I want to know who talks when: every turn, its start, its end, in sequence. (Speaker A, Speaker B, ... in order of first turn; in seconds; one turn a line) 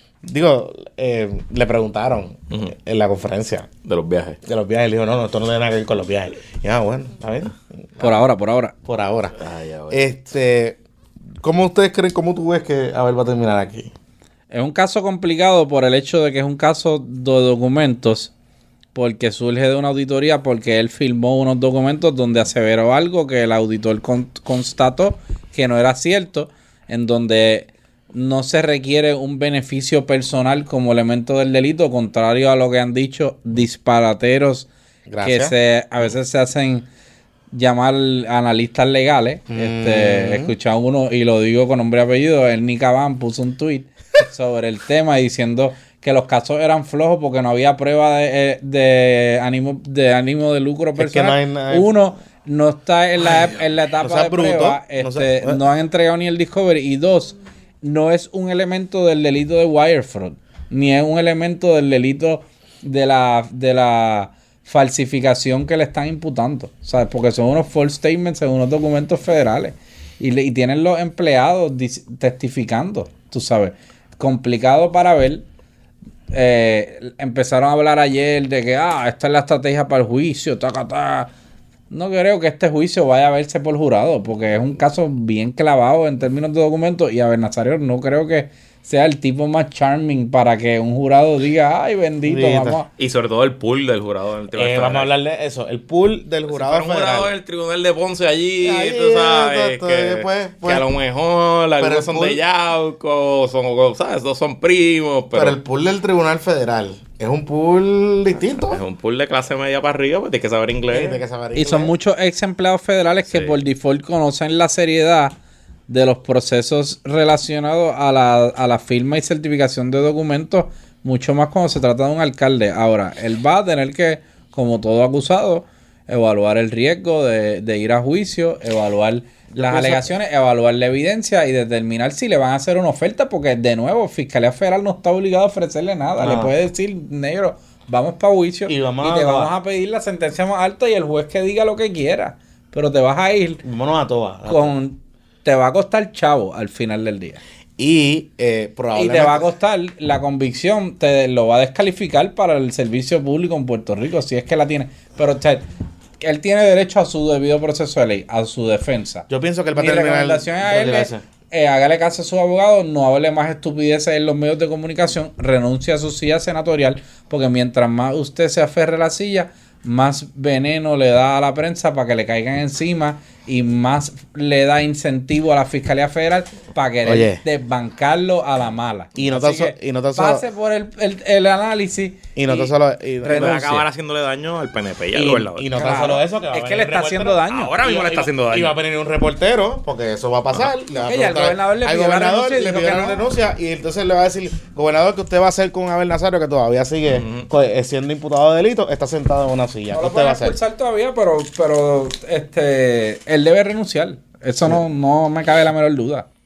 Speaker A: 0.2-3.7
Speaker B: 3.8-4.4
Speaker A: 4.5-8.2
Speaker C: 8.0-8.7
Speaker A: 8.8-9.4
Speaker B: 9.4-10.0
Speaker A: 9.9-10.8
Speaker A: 11.4-13.9
Speaker C: 14.5-18.3
Speaker C: 18.9-34.7
Speaker A: 35.1-35.5
Speaker C: 35.2-36.9
Speaker C: 37.5-75.4
Speaker A: 39.5-40.5
Speaker A: 51.0-51.9
Speaker A: 54.0-55.6
Speaker C: 76.3-81.3
Speaker C: 81.9-92.9
Speaker A: 92.3-92.8
Speaker B: 93.0-95.1
Speaker A: 94.5-97.3
Speaker B: 96.5-105.6
Speaker A: 98.6-100.8
Speaker A: 101.8-102.4
Speaker A: 105.3-108.8
Speaker B: 108.6-111.2
Speaker A: 110.9-111.9
Speaker C: 111.5-115.3
Speaker B: 113.2-113.5
Speaker C: 115.9-143.6
Speaker A: 129.5-130.1
Speaker A: 136.2-136.5
Speaker A: 138.7-139.5
Speaker A: 143.6-144.7
Speaker C: 144.5-147.4
Speaker A: 147.8-149.4
Speaker C: 148.9-155.6
Speaker C: 156.2-182.7
Speaker A: 159.3-161.2
Speaker A: 177.0-177.4
Speaker A: 179.2-180.4
Speaker A: 182.3-183.6
Speaker C: 183.2-183.8
Speaker B: 183.3-185.7
Speaker A: 185.1-200.6
Speaker C: 185.7-187.7
Speaker B: 187.5-188.8
Speaker C: 190.9-193.2
Speaker B: 197.1-197.5
Speaker C: 199.9-206.3